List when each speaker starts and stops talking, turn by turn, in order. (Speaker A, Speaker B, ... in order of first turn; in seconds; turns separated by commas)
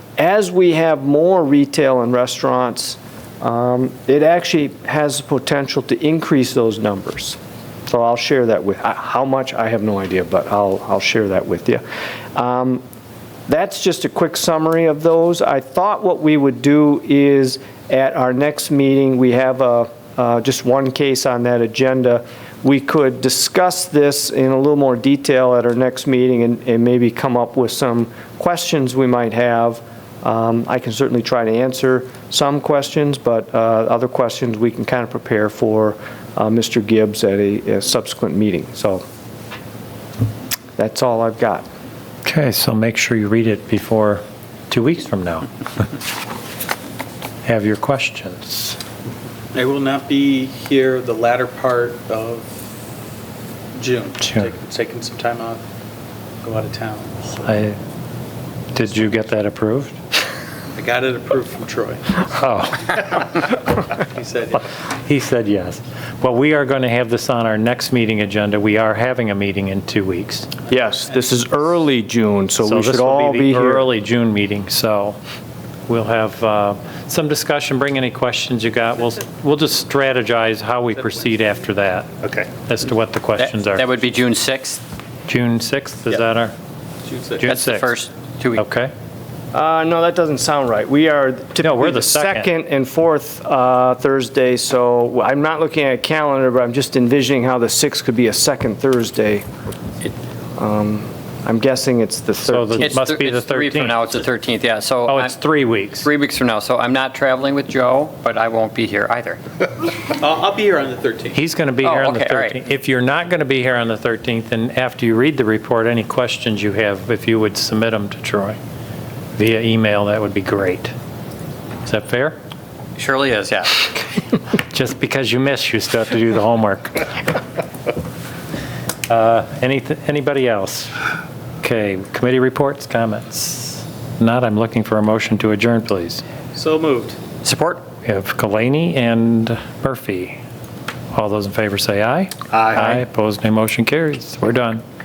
Speaker A: 0.2-11.8, Speaker A: 12.3-12.8, Speaker A: 13.5-39.0, Speaker A: 40.8-41.7, Speaker B: 42.2-45.9, Speaker B: 47.4-48.8, Speaker C: 49.5-52.5, Speaker C: 53.8-55.6, Speaker B: 54.2-54.5, Speaker C: 56.4-57.4, Speaker B: 57.4-57.8, Speaker B: 58.7-60.0, Speaker C: 60.7-62.3, Speaker B: 62.3-63.4, Speaker C: 64.0-64.7, Speaker B: 64.9-70.5, Speaker A: 70.7-73.9, Speaker C: 70.7-71.6, Speaker B: 72.6-75.2, Speaker B: 75.9-83.8, Speaker D: 83.4-84.8, Speaker B: 85.3-86.5, Speaker C: 87.0-87.5, Speaker B: 87.4-87.9, Speaker D: 87.4-88.6, Speaker B: 88.5-88.9, Speaker A: 89.5-99.4, Speaker B: 91.6-92.5, Speaker A: 100.6-103.0, Speaker B: 102.4-104.0, Speaker D: 102.8-105.3, Speaker B: 105.1-106.1, Speaker D: 106.0-109.4, Speaker C: 110.1-111.4, Speaker B: 111.3-118.6, Speaker D: 111.8-112.6, Speaker B: 119.3-120.9, Speaker B: 121.8-122.4, Speaker D: 123.0-123.9, Speaker B: 124.7-127.1, Speaker B: 129.1-130.9, Speaker B: 131.6-136.2, Speaker C: 136.5-137.2, Speaker D: 137.4-137.8, Speaker B: 138.0-140.4, Speaker B: 141.1-144.8